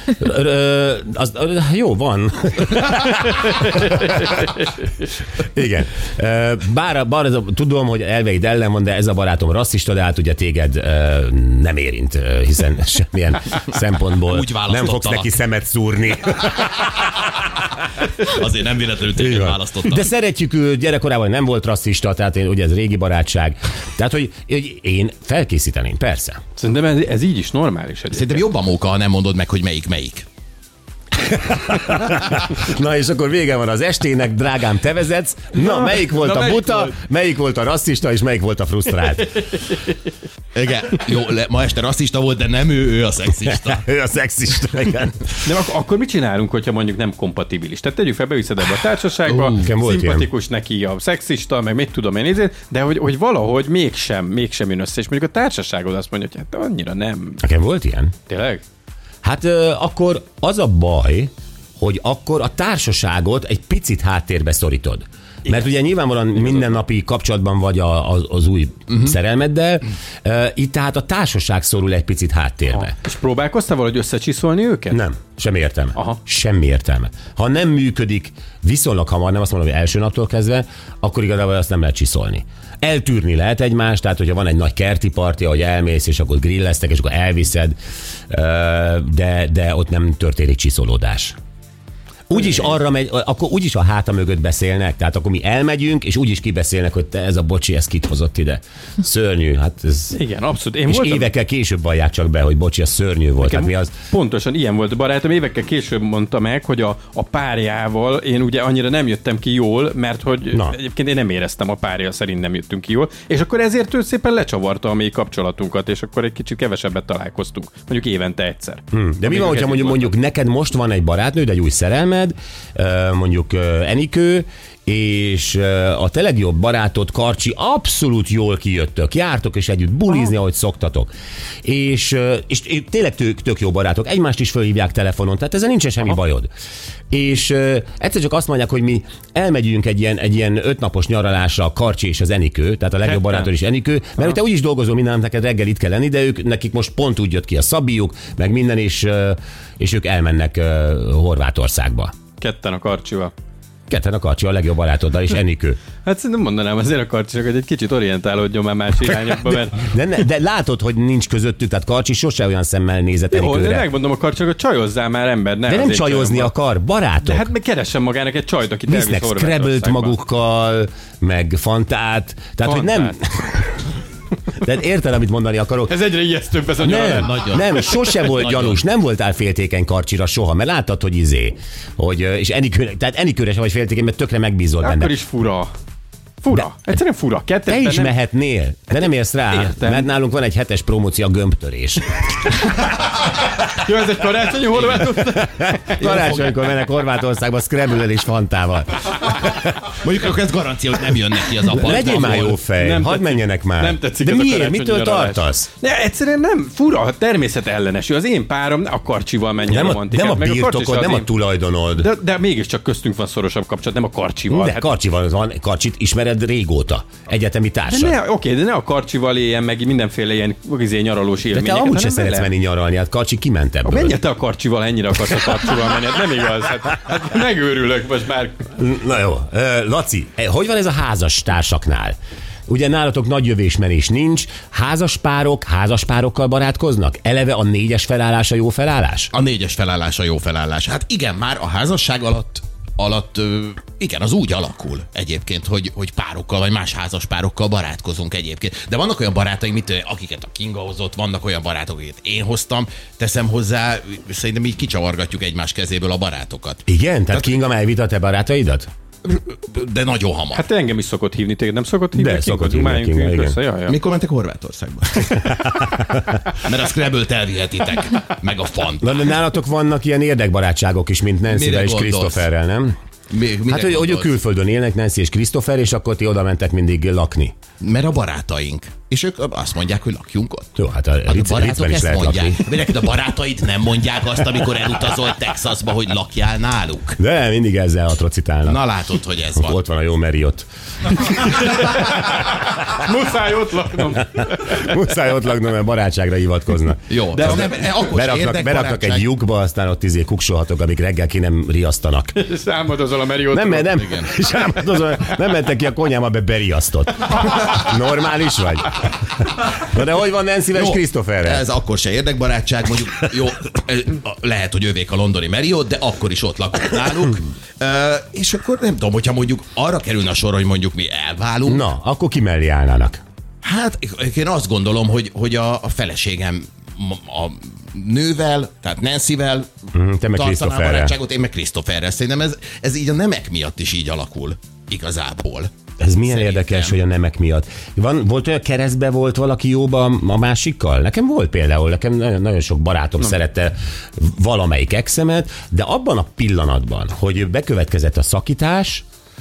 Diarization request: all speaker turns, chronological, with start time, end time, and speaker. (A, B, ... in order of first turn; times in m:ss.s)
0:00.1-0:04.5 A
0:05.4-0:17.3 A
0:14.3-0:15.4 B
0:18.1-0:20.1 B
0:19.2-0:26.4 A
0:26.6-0:28.4 C
0:28.1-0:30.3 B
0:31.2-0:39.4 A
0:35.6-0:36.9 C
0:40.5-0:43.8 B
0:43.5-0:45.5 A
0:45.4-0:57.4 C
0:49.6-0:50.3 A
0:57.4-0:58.1 A
0:58.3-0:58.6 C
0:59.2-1:13.0 A
1:06.3-1:06.8 C
1:12.7-1:15.0 C
1:14.9-1:27.8 A
1:28.3-1:31.4 A
1:32.3-1:40.2 A
1:40.1-1:41.3 C
1:40.9-1:43.9 A
1:43.4-2:00.1 C
1:50.5-1:50.8 A
1:58.9-2:11.1 A
2:11.6-2:16.5 A
2:17.1-2:32.1 A
2:23.0-2:23.5 C
2:32.4-2:33.3 C
2:33.9-2:35.8 A
2:36.0-2:39.9 C
2:39.8-2:43.9 A
2:43.3-2:46.5 C
2:45.7-2:47.5 A
2:47.2-2:50.2 C
2:48.9-2:53.8 A
2:52.6-2:53.2 C
2:54.5-2:55.9 A
2:55.9-2:57.3 C
2:56.8-3:05.1 A
2:57.1-2:58.8 B
3:04.8-3:05.7 C
3:06.4-3:08.2 C
3:07.7-3:12.5 A
3:08.9-3:10.1 C
3:13.3-3:16.4 C
3:15.2-3:20.0 A
3:20.0-3:22.6 B
3:21.7-3:25.7 A
3:22.8-3:31.3 C
3:29.6-3:32.1 A
3:32.0-3:34.9 C
3:34.5-3:38.2 A
3:37.9-3:42.5 C
3:41.5-3:44.2 A
3:43.8-3:48.6 C
3:48.8-3:52.2 A
3:52.7-3:59.3 A
3:59.3-4:17.6 B
4:16.9-4:18.9 A
4:19.2-4:20.6 B
4:20.5-4:24.0 C
4:22.1-4:23.6 A
4:23.9-4:29.2 B
4:25.4-4:26.4 A
4:29.0-4:32.9 A
4:31.5-4:32.4 B
4:33.3-4:34.4 B
4:33.7-4:37.6 A
4:37.8-4:40.8 B
4:40.8-4:42.6 A
4:41.3-4:47.2 B
4:47.2-4:48.8 A
4:48.6-4:49.8 B
4:49.6-4:51.5 A
4:51.5-4:55.0 C
4:54.4-5:02.4 A
4:57.1-4:59.3 B
4:57.3-4:57.9 C
5:02.4-5:04.0 C
5:03.5-5:11.6 A
5:04.0-5:04.3 B
5:10.7-5:21.9 B
5:21.7-5:23.2 A
5:23.6-5:37.0 B
5:29.9-5:31.1 A
5:36.0-5:49.0 A